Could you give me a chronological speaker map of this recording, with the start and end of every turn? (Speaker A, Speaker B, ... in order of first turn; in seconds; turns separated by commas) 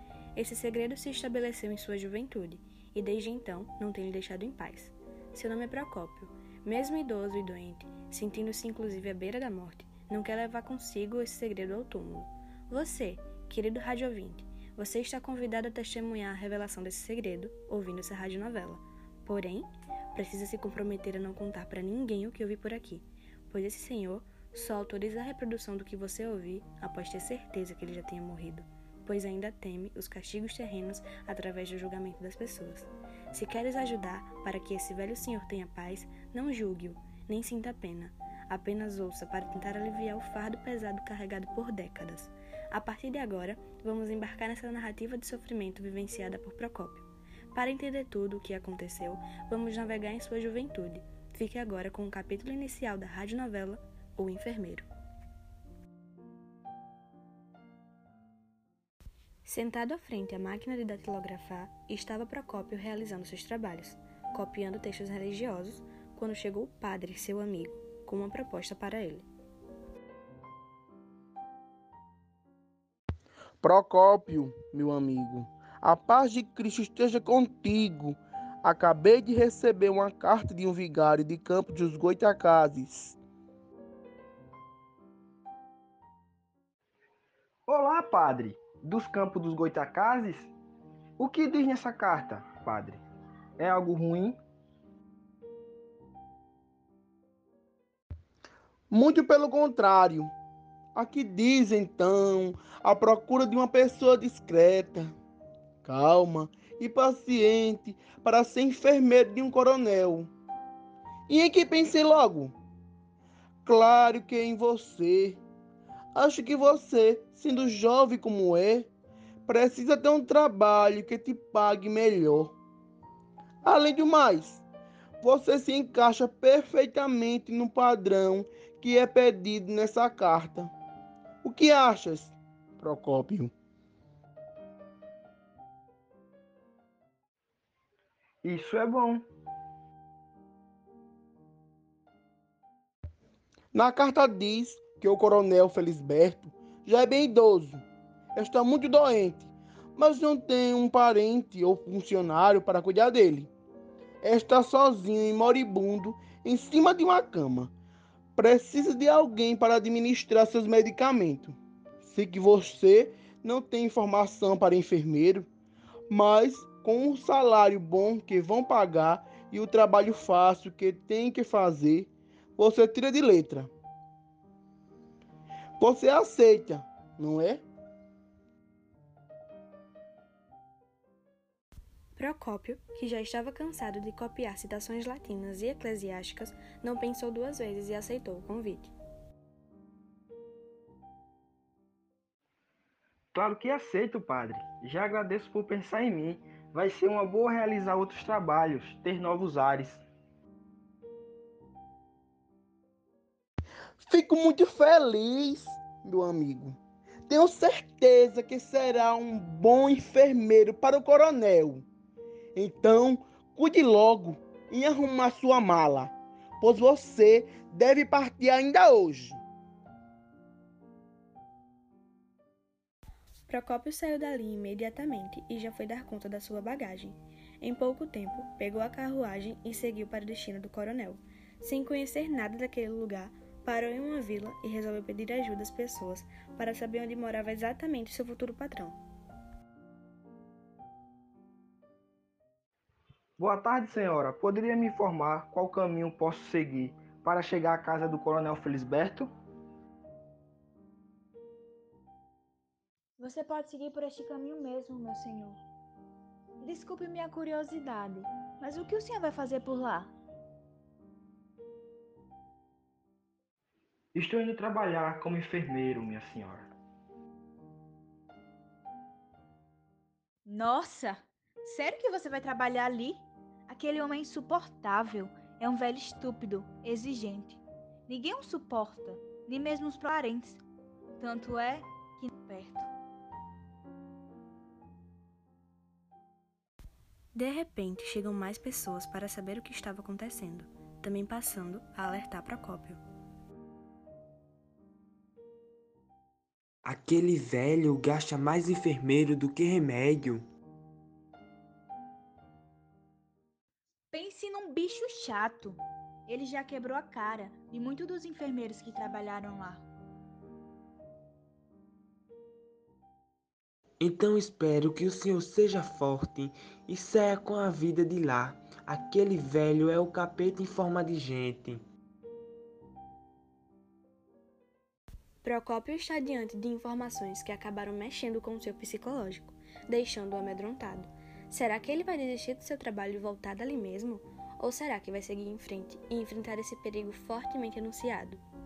Speaker A: 0.3-54.9, Speaker A: 59.4-69.3, Speaker B: 73.6-83.2, Speaker C: 87.7-90.5, Speaker C: 91.2-93.0, Speaker C: 93.6-94.3, Speaker B: 98.9-100.3, Speaker B: 101.0-105.1, Speaker B: 105.8-110.3, Speaker B: 111.3-112.5, Speaker B: 113.6-115.4, Speaker B: 116.1-118.9, Speaker B: 119.5-122.5, Speaker B: 123.6-124.6, Speaker B: 125.2-130.7, Speaker B: 131.4-133.5, Speaker C: 138.4-139.2, Speaker B: 143.7-147.8, Speaker B: 148.3-153.5, Speaker B: 154.2-157.7, Speaker B: 158.3-165.5, Speaker B: 166.1-173.7, Speaker B: 175.8-177.6, Speaker A: 182.2-188.9, Speaker C: 193.3-200.0, Speaker B: 204.0-211.8, Speaker B: 212.5-219.4, Speaker A: 223.5-239.0, Speaker C: 243.4-249.3, Speaker D: 253.2-255.6, Speaker D: 256.6-260.1, Speaker C: 264.1-266.7, Speaker D: 270.4-280.6, Speaker D: 281.2-282.9, Speaker A: 287.3-293.0, Speaker E: 296.8-300.4, Speaker D: 304.1-309.9, Speaker E: 314.0-321.8, Speaker A: 325.4-338.4